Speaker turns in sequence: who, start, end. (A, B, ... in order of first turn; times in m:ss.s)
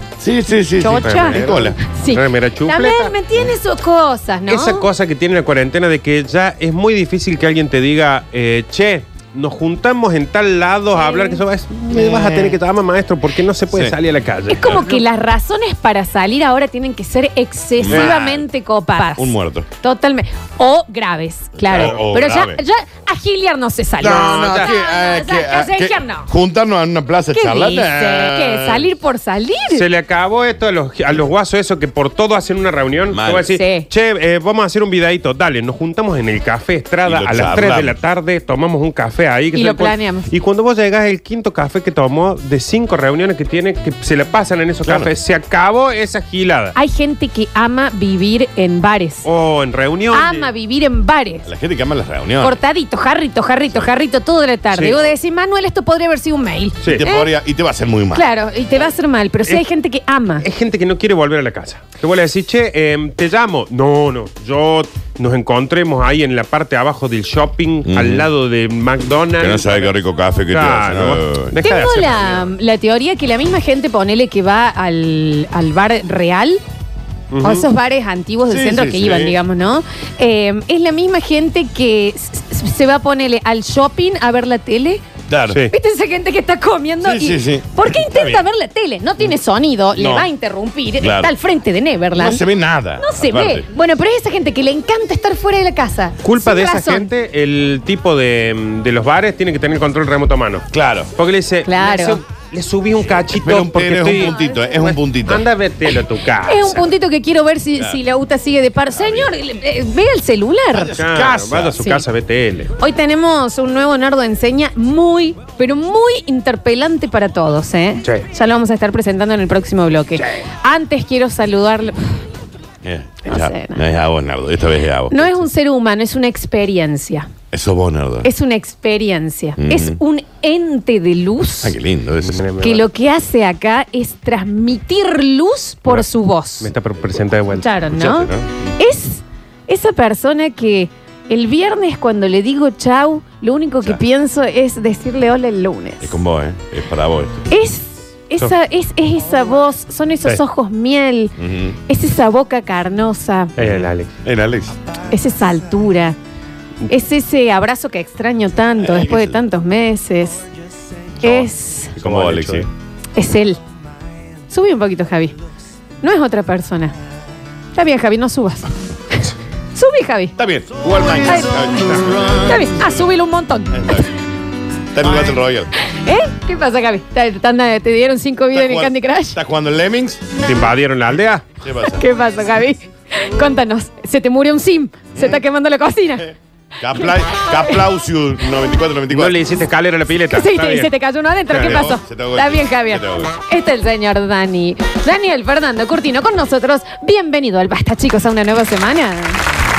0:00.2-0:01.8 A
0:00.8-0:04.9 B
0:01.0-0:03.2 C
0:04.5-0:15.0 C
0:11.0-0:11.4 B
0:11.9-0:12.6 A
0:13.7-0:14.0 A
0:14.5-0:26.3 B
0:17.8-0:18.5 A
0:17.9-0:18.2 C
0:19.2-0:19.7 A
0:21.6-0:22.6 A
0:21.7-0:22.0 C
0:24.0-0:28.9 A
0:24.0-0:24.7 C
0:27.3-0:29.9 B
0:29.7-0:46.8 C
0:33.1-0:33.5 A
0:33.5-0:33.9 B
0:37.0-0:38.0 A
0:39.5-0:40.3 B
0:44.8-0:45.1 A
0:46.8-0:49.3 B
0:49.2-0:50.5 C
0:50.1-0:51.5 B
0:51.5-0:52.6 A
0:52.4-0:57.3 B
0:54.7-0:55.2 C
0:57.0-0:58.3 A
0:58.1-1:00.5 B
1:00.4-1:12.5 C
1:07.9-1:08.3 A
1:09.4-1:11.6 A
1:11.6-1:16.6 B
1:17.3-1:17.7 C
1:17.4-1:25.0 B
1:18.5-1:19.4 A
1:25.3-1:25.6 A
1:25.7-1:32.4 B
1:27.0-1:28.5 A
1:30.0-1:30.3 A
1:31.0-1:31.3 A
1:32.2-1:33.7 A
1:33.0-1:37.1 B
1:36.2-1:46.9 C
1:40.7-1:41.1 A
1:41.6-1:42.2 B
1:43.2-1:45.5 A
1:44.2-1:44.6 B
1:46.4-1:51.0 B
1:48.9-1:49.3 A
1:50.7-1:51.8 A
1:51.0-1:52.7 C
1:51.8-1:52.0 B
1:52.8-2:02.2 B
2:02.8-2:05.3 A
2:03.2-2:03.9 B
2:05.1-2:07.3 B
2:07.5-2:08.3 A
2:08.2-2:11.8 B
2:09.6-2:10.0 A
2:11.6-2:12.4 A
2:12.2-2:12.8 C
2:12.6-2:16.7 B
2:16.6-2:17.7 C
2:17.5-2:26.2 B
2:17.9-2:18.6 A
2:26.0-2:27.5 A
2:27.5-2:33.6 B
2:31.4-2:31.8 A
2:33.6-2:34.1 C
2:34.2-2:34.8 A
2:35.1-2:36.2 B
2:36.9-2:40.5 B
2:38.8-2:39.4 A
2:41.2-2:42.0 B
2:42.0-2:42.7 C
2:42.0-2:42.7 A
2:43.2-2:43.6 B
2:44.5-2:45.4 B
2:46.0-2:47.0 B
2:47.8-2:50.4 B
2:50.4-2:52.9 A
2:51.2-2:54.0 B
2:51.8-2:52.2 C
2:53.7-2:54.2 A
2:54.9-2:55.7 A
2:55.8-2:59.4 B
2:58.5-3:00.4 A
3:00.4-3:01.5 C
3:01.6-3:02.1 A
3:01.8-3:06.4 B
3:05.2-3:05.4 A
3:06.8-3:09.4 A
3:06.9-3:07.8 B
3:09.1-3:10.9 C
3:10.3-3:19.4 B
3:11.5-3:12.0 C
3:11.5-3:13.3 A